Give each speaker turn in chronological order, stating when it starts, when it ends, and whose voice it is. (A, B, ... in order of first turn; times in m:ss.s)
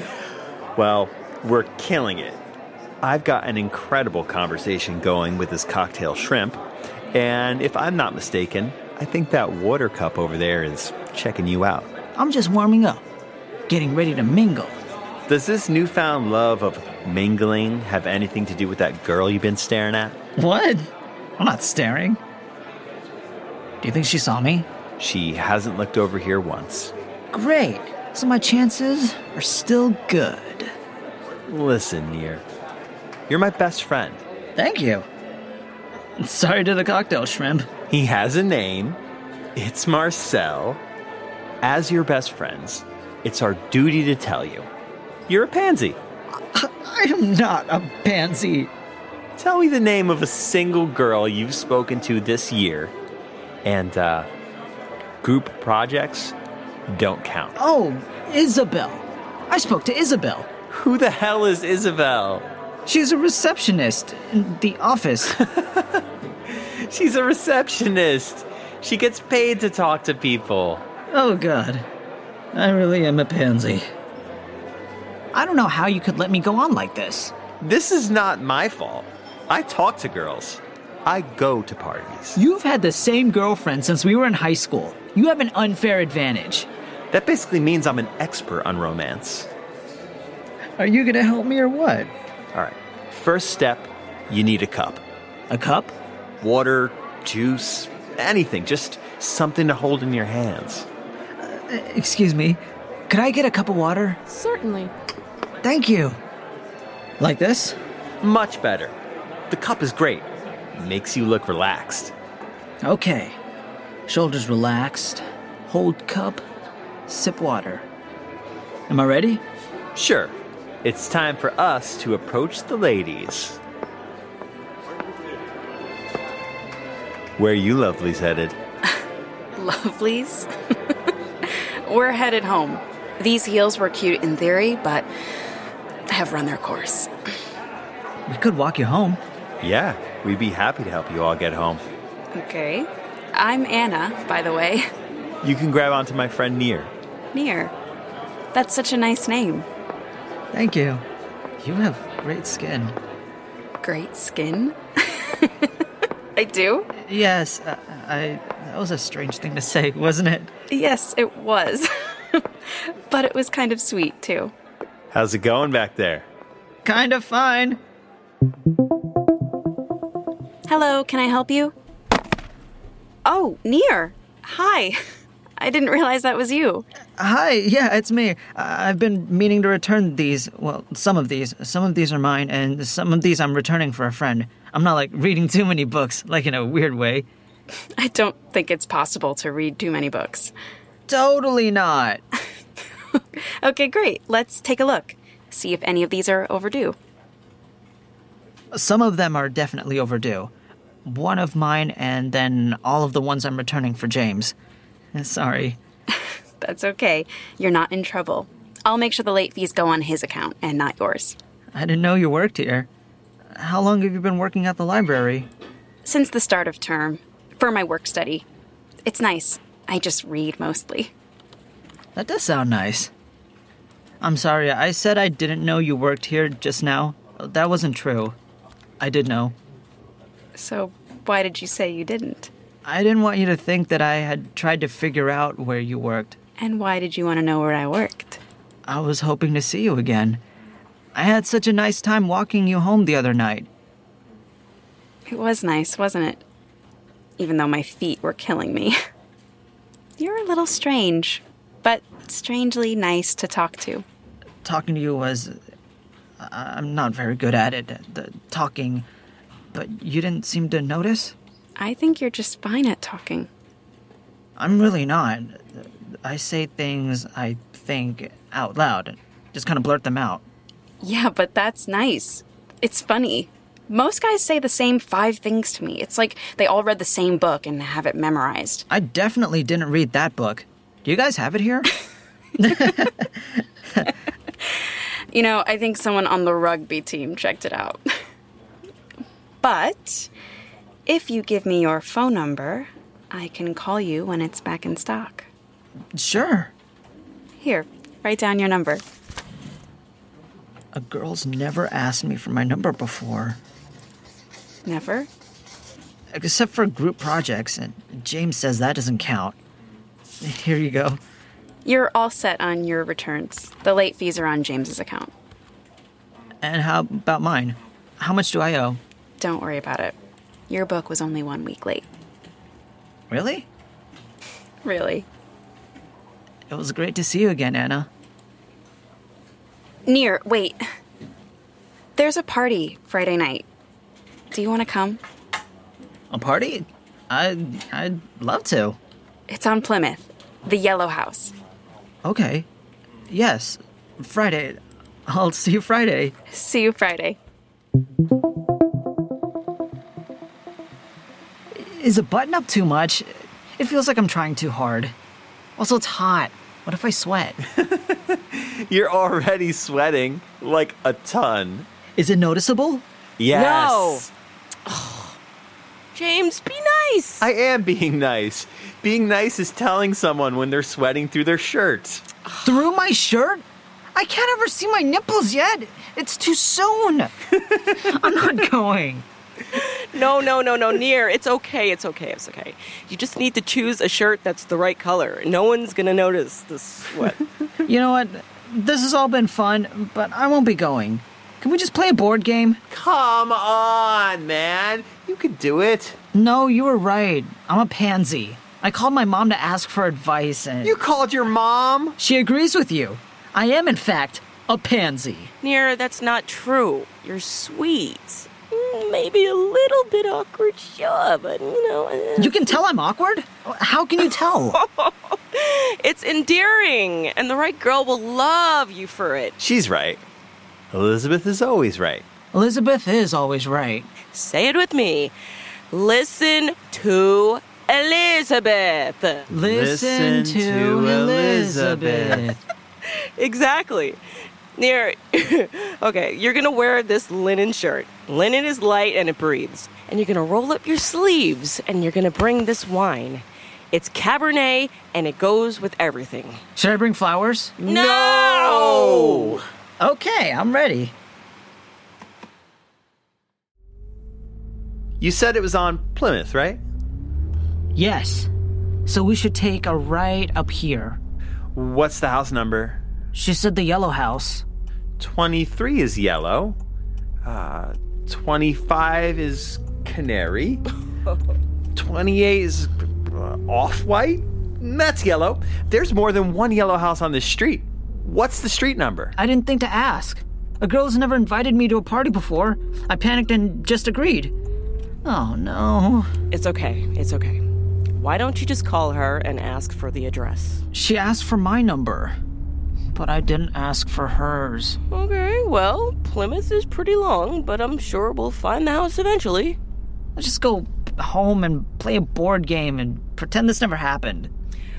0:00.8-0:02.4 A
0:03.0-0:06.6 A
0:07.1-0:11.9 A
0:12.2-0:13.0 B
0:13.7-0:14.8 B
0:15.3-0:20.2 A
0:20.4-0:22.2 B
0:23.8-0:24.7 B
0:25.0-0:26.9 A
0:27.3-0:30.7 B
0:31.5-0:32.4 A
0:33.3-0:34.2 A
0:34.6-0:35.0 B
0:36.2-0:37.7 B
0:37.9-0:39.0 A
0:39.6-0:40.8 A
0:41.6-0:44.7 A
0:45.3-0:46.0 A
0:46.5-0:48.7 B
0:49.4-0:52.9 A
0:53.6-0:54.3 A
0:55.2-0:56.3 A
0:56.9-0:57.6 A
0:57.6-1:00.5 B
1:00.7-1:02.4 A
1:02.8-1:05.3 B
1:05.4-1:10.8 A
1:11.1-1:11.8 B
1:12.5-1:13.8 B
1:15.3-1:17.4 B
1:17.6-1:22.4 A
1:22.3-1:26.7 B
1:27.1-1:29.5 A
1:30.8-1:32.1 B
1:32.5-1:35.0 A
1:35.5-1:35.9 B
1:36.4-1:40.9 A
1:41.4-1:44.2 B
1:45.6-1:46.2 B
1:47.2-1:47.8 B
1:48.2-1:48.9 A
1:49.5-1:52.1 A
1:52.8-1:53.4 B
1:54.1-1:56.4 B
1:57.1-1:57.9 B
1:58.9-1:59.4 B
1:59.9-2:03.6 A
2:07.4-2:08.6 A
2:09.6-2:10.5 C
2:11.4-2:15.1 C
2:16.1-2:17.1 C
2:18.3-2:19.2 B
2:19.6-2:21.8 A
2:22.3-2:24.8 C
2:25.4-2:26.9 A
2:27.3-2:27.7 C
2:28.5-2:29.7 C
2:30.5-2:31.0 B
2:31.6-2:33.0 B
2:33.8-2:35.7 C
2:36.4-2:36.9 C
2:36.9-2:40.5 B
2:40.7-2:44.5 C
2:45.1-2:46.3 A
2:46.8-2:47.8 B
2:50.7-2:51.7 C
2:53.2-2:55.0 C
2:55.6-2:56.8 C
2:57.2-3:07.2 B
3:08.0-3:10.5 C
3:11.1-3:12.2 B
3:13.6-3:17.0 C
3:18.7-3:20.5 B
3:21.0-3:24.5 B
3:25.1-3:25.8 B
3:26.6-3:31.4 C
3:31.7-3:32.9 B
3:33.5-3:35.5 B
3:36.0-3:38.4 C
3:39.0-3:41.1 C
3:42.2-3:43.1 B
3:44.2-3:48.4 B
3:49.0-3:49.5 B
3:50.5-3:52.5 C
3:52.8-3:56.4 B
3:56.6-3:58.4 C
3:58.9-4:00.4 B
4:01.1-4:03.7 B
4:05.3-4:06.4 C
4:07.4-4:09.0 C
4:10.2-4:14.0 C
4:14.6-4:15.6 B
4:16.4-4:19.1 B
4:19.7-4:21.3 B
4:21.8-4:23.5 C
4:24.6-4:30.4 B
4:31.0-4:38.8 C
4:38.9-4:41.9 B
4:42.6-4:44.1 B
4:44.9-4:48.0 C
4:49.6-4:50.3 C
4:51.1-4:55.5 C
4:56.1-4:56.7 B
4:57.6-4:59.0 C
5:00.9-5:03.6 B
5:04.8-5:05.3 C
5:06.3-5:09.6 B
5:10.4-5:11.2 B
5:11.8-5:15.3 C
5:16.6-5:19.0 B
5:19.4-5:20.2 C
5:20.7-5:22.0 C
5:23.3-5:23.7 B
5:24.8-5:25.3 C
5:26.7-5:28.1 B
5:30.0-5:30.8 C
5:32.2-5:33.6 C
5:34.5-5:35.2 C
5:36.3-5:39.0 B
5:39.5-5:41.5 C
5:42.2-5:42.7 B
5:43.3-5:46.3 B
5:46.5-5:47.4 C
5:51.7-5:55.1 B
5:55.8-5:57.6 B
5:57.8-6:01.9 A
6:02.2-6:03.0 B
6:03.4-6:04.3 A
6:03.5-6:04.3 D
6:04.9-6:05.4 D
6:06.1-6:07.4 D
6:07.4-6:12.2 A
6:12.5-6:12.7 D
6:12.6-6:13.6 B
6:14.1-6:17.3 B
6:17.9-6:19.2 B
6:19.7-6:27.4 D
6:27.9-6:32.8 B
6:32.9-6:36.2 A
6:36.3-6:41.0 B
6:40.8-6:42.2 A
6:42.2-6:45.5 B
6:45.6-6:52.7 D
6:52.4-6:54.8 B
6:54.7-6:59.5 D
6:59.6-7:00.2 A
7:00.9-7:02.2 A
7:02.5-7:04.1 B
7:04.3-7:05.3 D
7:05.9-7:09.5 D
7:09.5-7:12.6 B
7:09.6-7:12.5 A
7:13.4-7:14.2 D
7:14.8-7:26.6 D
7:26.8-7:27.8 B
7:27.8-7:29.6 D
7:27.8-7:29.6 A
7:30.0-7:31.1 B
7:35.2-7:36.8 A
7:37.9-7:38.5 B
7:39.0-7:41.2 B
7:41.7-7:43.0 A
7:43.3-7:44.6 B
7:45.2-7:46.8 A
7:47.4-7:50.8 A
7:51.9-7:59.3 A
7:59.4-8:04.5 B
8:05.2-8:06.3 B
8:06.5-8:07.6 D
8:08.2-8:10.8 D
8:10.9-8:12.4 B
8:13.1-8:15.0 B
8:15.1-8:19.8 D
8:20.4-8:24.5 B